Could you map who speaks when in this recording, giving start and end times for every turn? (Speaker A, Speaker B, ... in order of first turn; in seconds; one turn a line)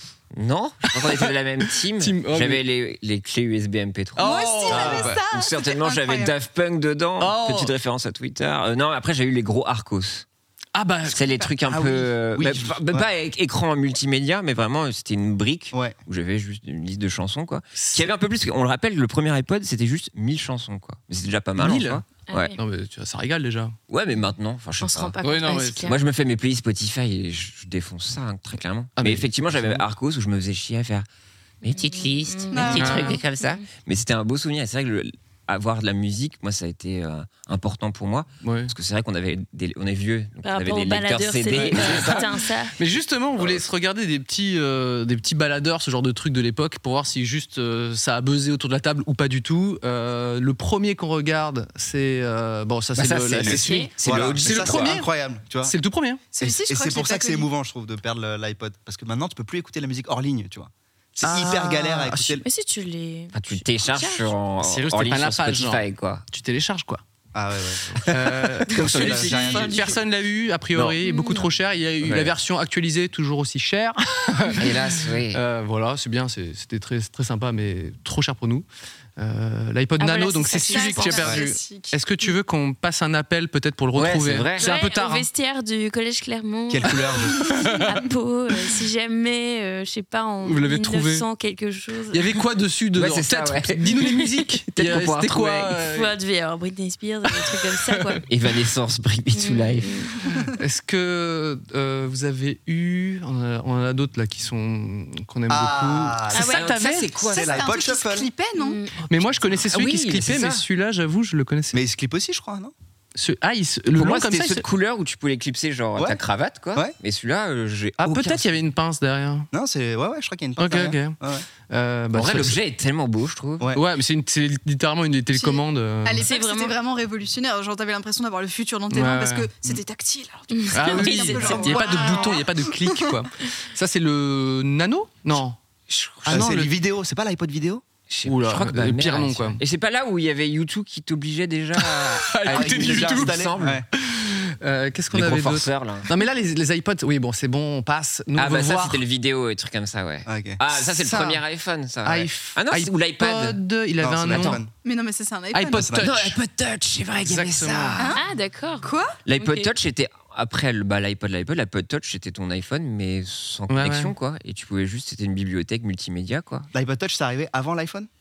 Speaker A: 0.3-10.2
Speaker B: 2.0-2.6
Speaker B: 4.2-5.2
Speaker C: 4.2-6.3
Speaker B: 7.2-7.7
Speaker B: 10.7-11.3
Speaker A: 11.1-22.5
Speaker D: 11.7-13.1
Speaker B: 17.7-18.1
Speaker B: 21.6-22.0
Speaker E: 22.3-22.6
Speaker B: 22.6-23.8
Speaker A: 23.9-25.1
Speaker E: 24.8-26.0
Speaker B: 25.2-25.9
Speaker A: 25.8-31.1
Speaker B: 29.0-29.8
Speaker A: 31.6-42.3
Speaker E: 31.6-33.6
Speaker C: 32.5-33.2
Speaker B: 32.7-33.1
Speaker B: 38.4-38.7
Speaker E: 40.4-42.7
Speaker B: 41.5-42.2
Speaker B: 42.8-55.1
Speaker A: 53.0-55.0
Speaker D: 53.4-55.8
Speaker E: 53.6-53.9
Speaker B: 55.6-56.2
Speaker C: 56.3-57.5
Speaker D: 56.4-62.4
Speaker B: 61.2-62.4
Speaker E: 62.4-64.3
Speaker A: 63.3-66.2
Speaker B: 64.6-67.0
Speaker D: 67.3-70.0
Speaker B: 68.0-85.3
Speaker A: 68.7-69.9
Speaker A: 70.7-71.0
Speaker E: 71.0-71.5
Speaker A: 72.0-72.3
Speaker A: 74.6-75.4
Speaker E: 80.0-81.4
Speaker C: 80.6-82.4
Speaker A: 83.9-84.7
Speaker E: 84.6-92.3
Speaker D: 86.7-87.6
Speaker B: 87.5-87.9
Speaker B: 90.4-91.2
Speaker B: 92.1-96.1
Speaker A: 93.0-93.8
Speaker A: 94.7-95.8
Speaker E: 95.9-98.2
Speaker A: 98.3-100.0
Speaker E: 99.3-100.3
Speaker B: 100.6-107.1
Speaker D: 105.5-108.3
Speaker E: 106.3-106.7
Speaker A: 106.5-107.7
Speaker C: 107.3-108.8
Speaker E: 108.6-108.9
Speaker B: 109.0-111.8
Speaker A: 109.5-110.6
Speaker D: 111.7-112.7
Speaker B: 113.1-114.6
Speaker A: 113.9-118.4
Speaker B: 118.0-119.5
Speaker D: 119.5-121.5
Speaker B: 120.6-122.6
Speaker A: 122.1-123.7
Speaker B: 123.7-126.3
Speaker C: 125.3-133.2
Speaker E: 126.2-126.7
Speaker B: 128.9-129.6
Speaker E: 130.5-132.4
Speaker B: 130.7-135.6
Speaker A: 136.1-136.6
Speaker B: 136.1-136.7
Speaker D: 136.2-137.8
Speaker A: 138.1-143.8
Speaker B: 138.2-139.6
Speaker B: 141.8-149.0
Speaker D: 142.5-143.9
Speaker A: 145.1-146.1
Speaker A: 148.3-153.6
Speaker D: 150.2-150.6
Speaker B: 150.8-151.4
Speaker B: 152.0-154.6
Speaker D: 154.0-154.7
Speaker A: 154.3-154.6
Speaker C: 154.7-156.0
Speaker B: 155.5-156.4
Speaker D: 155.9-156.1
Speaker A: 156.0-158.2
Speaker B: 157.2-158.0
Speaker E: 158.2-159.7
Speaker C: 158.8-159.2
Speaker A: 159.3-166.7
Speaker B: 163.7-164.1
Speaker D: 166.7-168.1